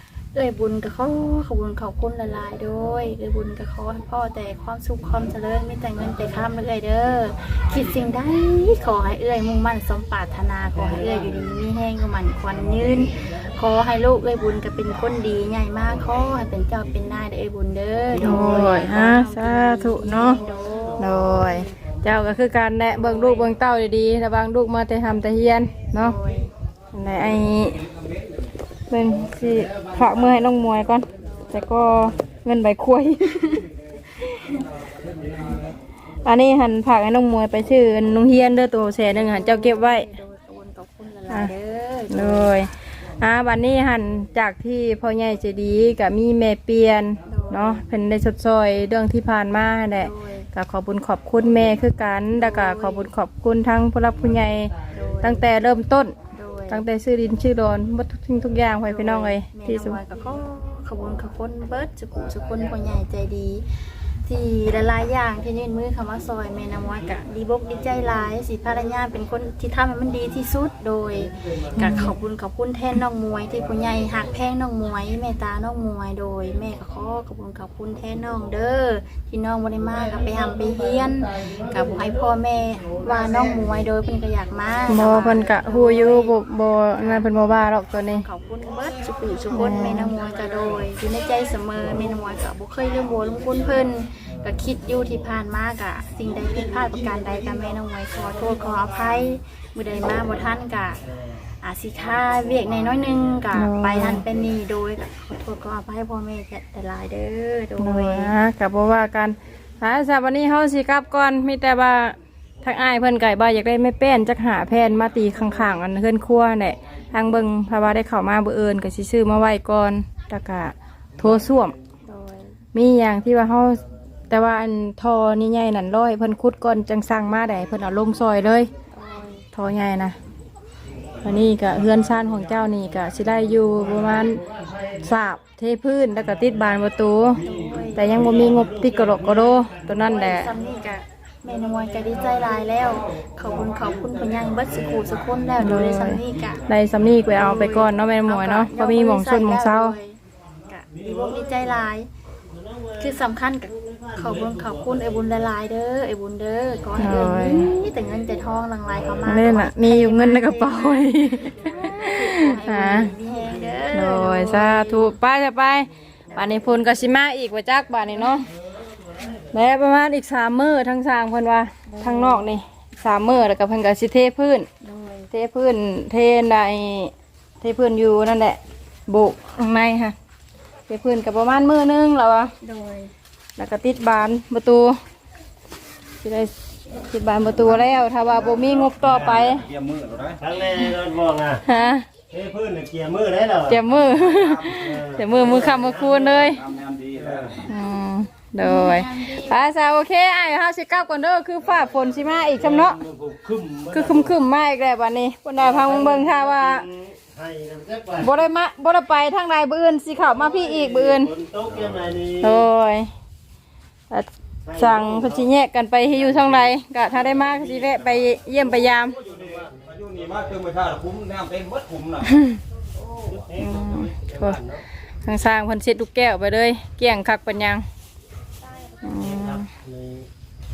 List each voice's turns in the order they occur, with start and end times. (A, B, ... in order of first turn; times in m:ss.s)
0:00.3-0:21.6 A
0:18.2-0:18.8 B
0:18.2-0:20.4 C
0:21.0-0:26.2 C
0:22.9-0:23.5 A
0:25.9-0:26.5 A
0:26.9-0:27.8 C
0:28.9-0:33.6 C
0:36.2-0:40.1 C
0:39.1-0:42.5 A
0:42.1-0:54.7 C
0:47.3-0:47.8 A
0:50.0-0:50.5 A
0:52.4-0:53.1 A
0:54.9-0:55.4 A
0:55.2-0:56.1 C
0:56.3-0:56.8 A
0:56.7-1:00.0 C
0:58.8-1:03.6 A
1:04.2-1:26.4 A
1:11.8-1:12.1 C
1:24.9-1:28.2 C
1:26.9-1:27.4 A
1:28.1-1:41.0 A
1:29.5-1:30.1 C
1:41.6-1:48.3 A
1:43.5-1:44.2 C
1:47.8-2:01.7 C
2:02.0-2:02.6 A
2:02.7-2:08.7 C
2:08.9-2:09.4 A
2:09.5-2:10.2 C
2:11.2-2:14.4 C
2:14.2-2:15.0 B
2:15.0-2:17.4 C
2:17.4-2:18.1 A
2:17.9-2:20.5 C
2:18.2-2:19.7 B
2:20.0-2:26.6 A
2:25.6-2:30.0 C
2:27.3-2:30.2 A
2:30.7-2:32.1 A
2:33.0-2:45.1 A
2:37.0-2:37.7 C
2:39.2-2:43.1 C
2:43.9-2:48.5 C
2:49.5-2:54.7 C
2:51.9-2:52.4 A
2:54.8-2:55.3 A
2:55.3-3:00.1 C
3:00.9-3:02.5 C
3:02.6-3:03.1 A
3:03.6-3:05.0 C
3:06.2-3:06.5 C
3:07.1-3:09.6 C
3:09.0-3:09.5 B
3:09.1-3:10.4 D
3:10.4-3:11.6 B
3:11.6-3:12.0 C
3:12.3-3:13.8 B
3:13.7-3:16.6 C
3:13.9-3:15.0 D
3:14.7-3:16.4 B
3:16.3-3:17.7 D
3:17.2-3:17.6 B
3:17.7-3:23.0 C
3:18.6-3:19.6 A
3:22.5-3:24.4 B
3:23.9-3:26.8 C
3:25.6-3:28.3 B
3:28.2-3:31.3 C
3:30.2-3:32.6 B
3:31.6-3:32.1 D
3:32.4-3:33.1 C
3:34.1-3:39.2 C
3:34.6-3:35.5 B
3:36.1-3:36.7 B
3:37.2-3:38.4 B
3:38.9-3:40.0 B
3:39.2-3:42.3 D
3:43.0-3:44.8 B
3:43.6-3:44.6 C
3:45.2-3:47.8 C
3:49.0-3:49.7 C
3:49.1-3:50.3 B